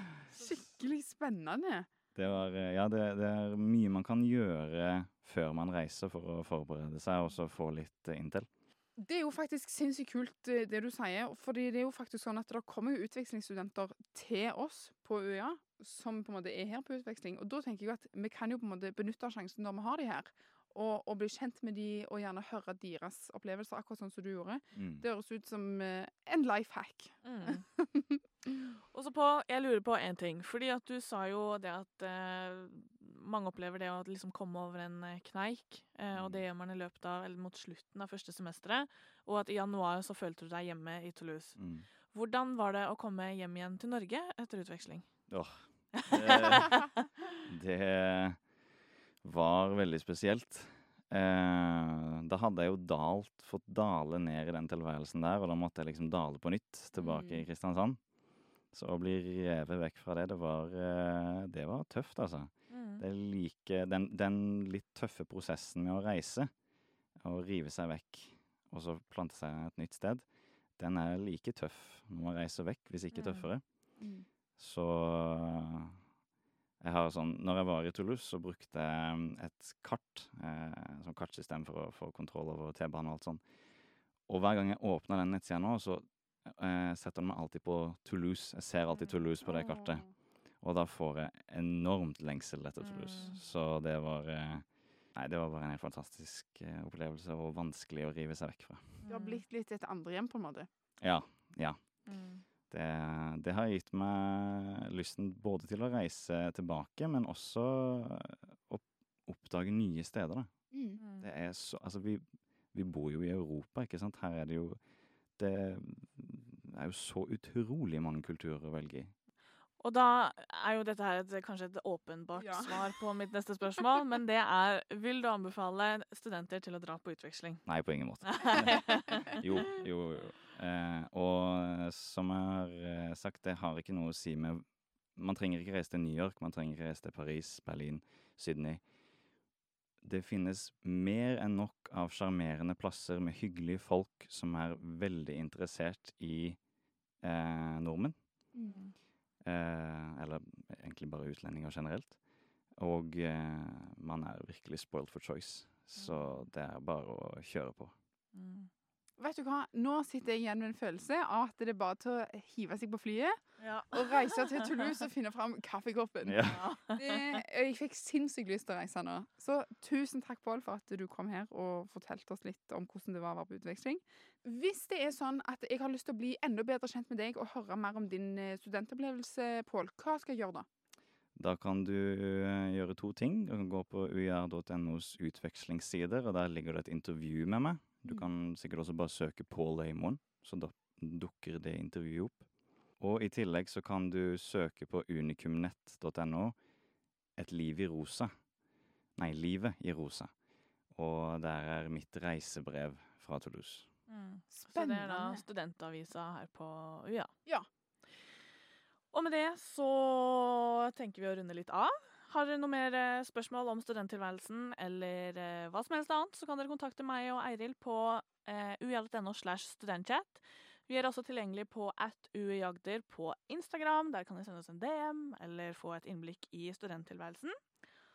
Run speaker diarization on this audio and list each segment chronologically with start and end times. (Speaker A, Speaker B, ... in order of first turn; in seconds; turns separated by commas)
Speaker A: 0.3-1.9, Speaker B: 2.1-8.5, Speaker A: 9.0-28.7, Speaker B: 24.7-25.0, Speaker C: 27.2-27.6, Speaker C: 28.9-41.6, Speaker B: 36.1-36.4, Speaker B: 41.6-41.9, Speaker C: 42.1-45.1, Speaker B: 45.3-46.9, Speaker C: 45.9-46.9, Speaker B: 47.4-48.4, Speaker B: 49.2-58.0, Speaker C: 56.9-57.5, Speaker B: 58.7-66.5, Speaker C: 62.7-63.0, Speaker B: 67.2-73.6, Speaker C: 73.1-73.5, Speaker A: 74.0-74.2, Speaker B: 74.6-76.0, Speaker B: 76.8-83.4, Speaker B: 84.3-99.0, Speaker A: 89.4-90.1, Speaker C: 92.8-93.4, Speaker C: 99.0-99.4, Speaker A: 99.1-100.7, Speaker B: 101.0-102.0, Speaker C: 102.0-102.4, Speaker B: 102.7-110.6, Speaker A: 110.7-111.0, Speaker C: 111.0-111.3, Speaker B: 111.2-114.8, Speaker B: 115.4-119.1, Speaker C: 119.8-127.6, Speaker A: 122.4-122.8, Speaker B: 127.7-138.8, Speaker C: 128.2-129.4, Speaker B: 140.0-146.6, Speaker B: 147.2-148.2, Speaker C: 148.7-148.9, Speaker B: 149.4-152.2, Speaker B: 152.8-157.9, Speaker C: 155.9-156.5, Speaker C: 158.3-158.7, Speaker A: 159.2-180.7, Speaker C: 163.6-164.6, Speaker B: 166.2-166.7, Speaker C: 166.4-167.4, Speaker B: 181.3-192.4, Speaker B: 193.0-196.6, Speaker B: 197.3-198.3, Speaker B: 199.2-200.3, Speaker B: 200.9-203.9, Speaker C: 204.1-207.3, Speaker A: 204.5-205.4, Speaker C: 209.1-227.6